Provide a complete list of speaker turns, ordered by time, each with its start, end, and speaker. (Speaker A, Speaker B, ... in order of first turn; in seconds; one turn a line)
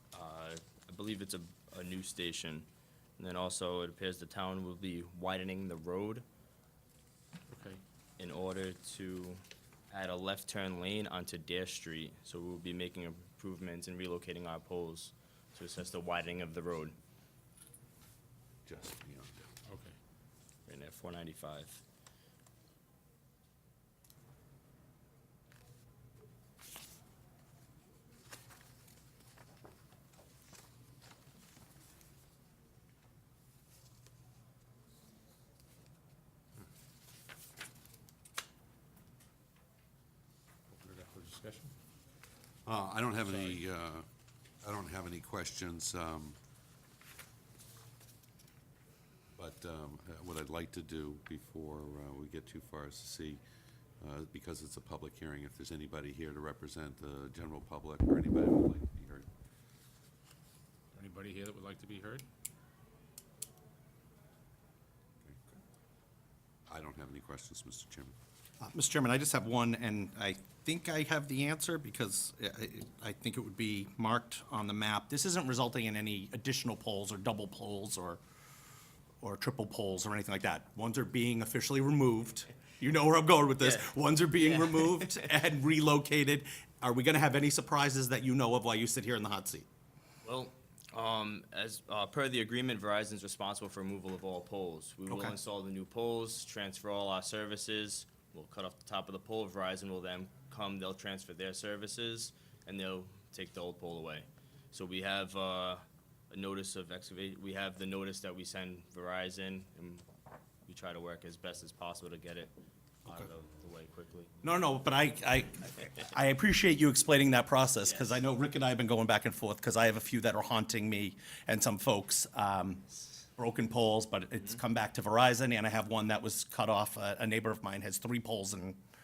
Speaker A: 0.1-6.2
Speaker B: 7.5-7.8
Speaker A: 8.2-16.9
Speaker C: 18.7-19.4
Speaker B: 19.6-19.9
Speaker A: 20.7-21.8
Speaker B: 40.7-41.7
Speaker C: 42.7-44.0
Speaker B: 43.2-43.6
Speaker C: 44.6-46.4
Speaker C: 49.4-53.4
Speaker C: 54.0-59.2
Speaker B: 60.9-62.2
Speaker C: 66.7-68.1
Speaker D: 68.6-78.2
Speaker D: 79.2-89.7
Speaker A: 83.6-85.3
Speaker A: 90.2-110.0
Speaker D: 95.1-95.3
Speaker A: 110.7-112.5
Speaker A: 113.0-114.4
Speaker D: 114.4-122.8
Speaker D: 123.3-128.8